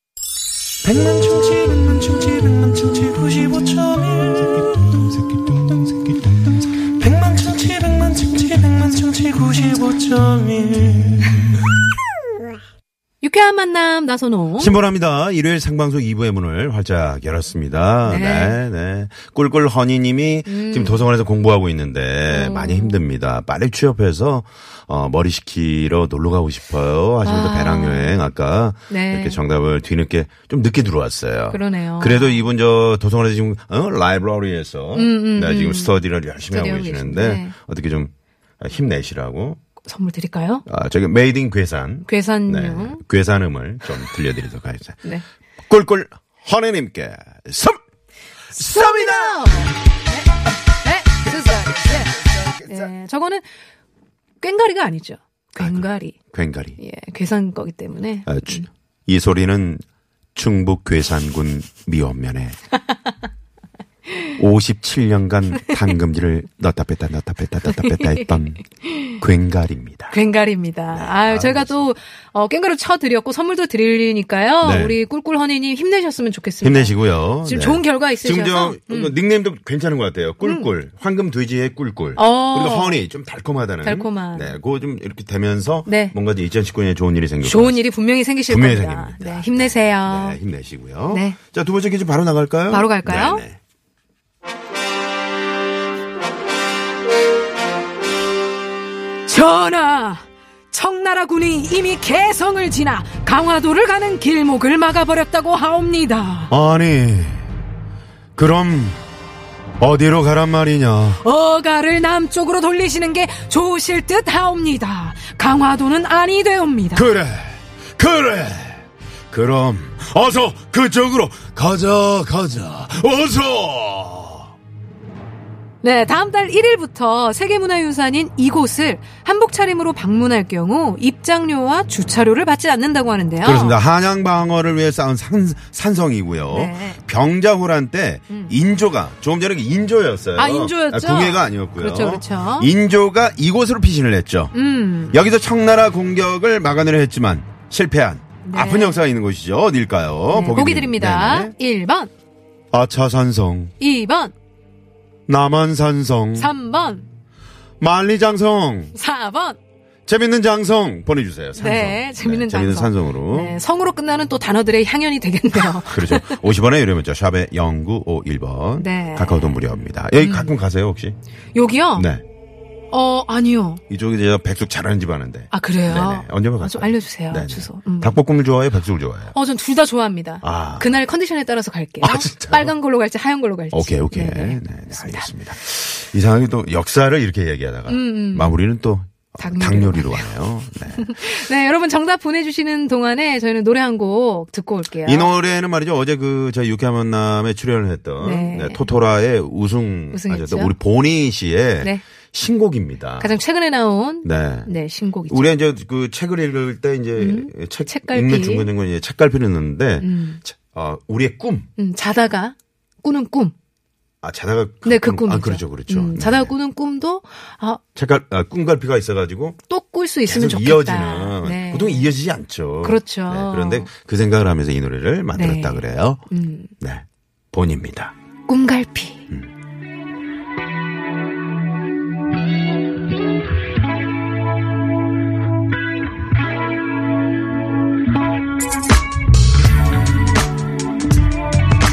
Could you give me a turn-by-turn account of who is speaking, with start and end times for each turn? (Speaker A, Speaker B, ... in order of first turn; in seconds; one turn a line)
Speaker A: 0.8-6.3
Speaker A: 6.8-11.3
Speaker B: 13.2-14.8
Speaker C: 14.6-39.6
Speaker B: 18.1-18.6
Speaker B: 20.5-21.1
Speaker B: 22.3-23.0
Speaker B: 27.2-28.2
Speaker B: 28.9-29.4
Speaker B: 31.5-32.5
Speaker B: 34.9-37.6
Speaker B: 39.8-40.6
Speaker C: 40.7-45.0
Speaker B: 42.1-43.0
Speaker C: 45.7-47.8
Speaker C: 48.5-49.7
Speaker B: 48.5-53.5
Speaker C: 51.2-52.9
Speaker B: 54.4-56.2
Speaker C: 55.6-56.8
Speaker B: 56.8-58.7
Speaker C: 58.3-59.8
Speaker C: 60.4-62.6
Speaker C: 64.4-68.6
Speaker B: 67.7-69.2
Speaker C: 69.2-70.2
Speaker B: 70.1-79.2
Speaker C: 70.9-71.8
Speaker C: 74.6-75.0
Speaker C: 76.6-87.8
Speaker B: 80.4-80.7
Speaker B: 82.2-83.0
Speaker B: 83.8-84.6
Speaker B: 85.9-86.2
Speaker B: 87.4-90.4
Speaker C: 88.5-93.6
Speaker B: 91.1-91.4
Speaker B: 92.7-93.4
Speaker B: 99.3-106.5
Speaker C: 106.5-107.5
Speaker C: 108.4-109.0
Speaker C: 109.8-111.2
Speaker B: 111.2-117.1
Speaker C: 117.0-124.5
Speaker B: 125.8-133.8
Speaker C: 133.4-144.6
Speaker B: 136.5-137.0
Speaker B: 140.4-142.7
Speaker B: 144.5-145.2
Speaker C: 145.1-151.6
Speaker B: 148.4-149.1
Speaker B: 150.3-152.1
Speaker C: 152.7-153.7
Speaker B: 153.8-154.3
Speaker C: 155.3-156.5
Speaker B: 156.4-157.1
Speaker C: 157.8-158.9
Speaker B: 158.9-159.6
Speaker C: 160.1-163.6
Speaker B: 161.6-166.4
Speaker C: 165.8-171.2
Speaker B: 168.8-169.6
Speaker B: 170.2-170.5
Speaker B: 171.5-172.1
Speaker C: 171.9-172.2
Speaker B: 172.9-173.8
Speaker C: 173.9-179.3
Speaker B: 175.5-178.2
Speaker B: 179.3-185.3
Speaker C: 180.4-181.0
Speaker C: 182.0-182.7
Speaker C: 183.7-191.3
Speaker B: 187.9-188.6
Speaker B: 189.4-190.3
Speaker B: 190.9-195.3
Speaker C: 195.0-203.4
Speaker B: 198.2-198.9
Speaker B: 200.1-200.8
Speaker B: 203.2-205.5
Speaker C: 204.2-204.7
Speaker C: 205.3-211.7
Speaker B: 207.2-208.7
Speaker B: 210.0-210.4
Speaker B: 211.8-213.5
Speaker C: 214.2-216.5
Speaker B: 214.8-217.8
Speaker C: 218.0-219.6
Speaker B: 219.7-222.1
Speaker C: 220.3-226.2
Speaker B: 222.8-223.9
Speaker B: 225.3-226.7
Speaker C: 226.8-228.1
Speaker B: 228.5-229.2